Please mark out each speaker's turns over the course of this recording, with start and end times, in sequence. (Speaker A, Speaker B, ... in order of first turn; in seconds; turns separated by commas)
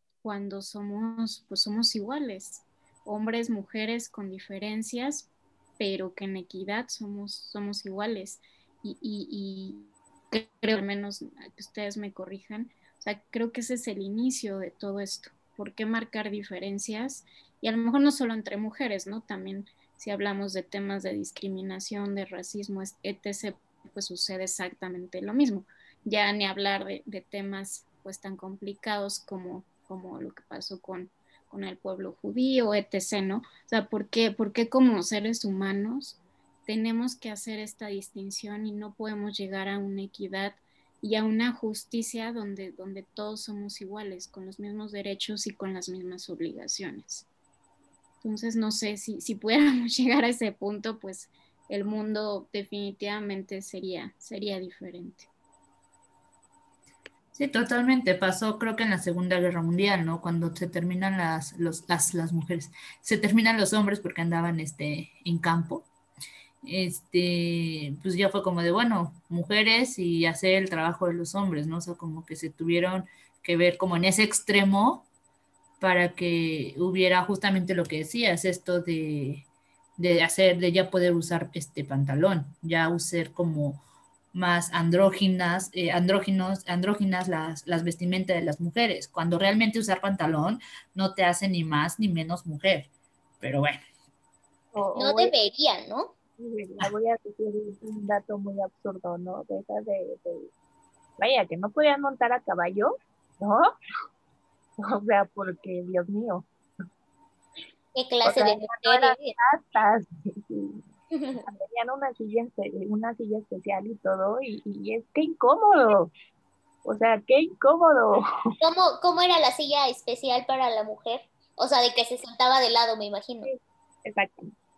Speaker A: 0.2-47.3, Speaker A: 48.2-55.3, Speaker B: 57.3-65.9, Speaker B: 66.6-75.1, Speaker B: 75.8-83.8, Speaker B: 84.3-92.9, Speaker B: 93.4-93.8, Speaker C: 94.7-95.3, Speaker D: 95.0-96.2, Speaker C: 96.4-100.5, Speaker C: 101.2-103.7, Speaker C: 104.8-106.5, Speaker D: 107.9-109.4, Speaker C: 108.2-110.8, Speaker D: 111.1-111.4, Speaker C: 111.4-116.1, Speaker C: 116.8-118.2, Speaker D: 118.6-123.5, Speaker C: 123.4-124.5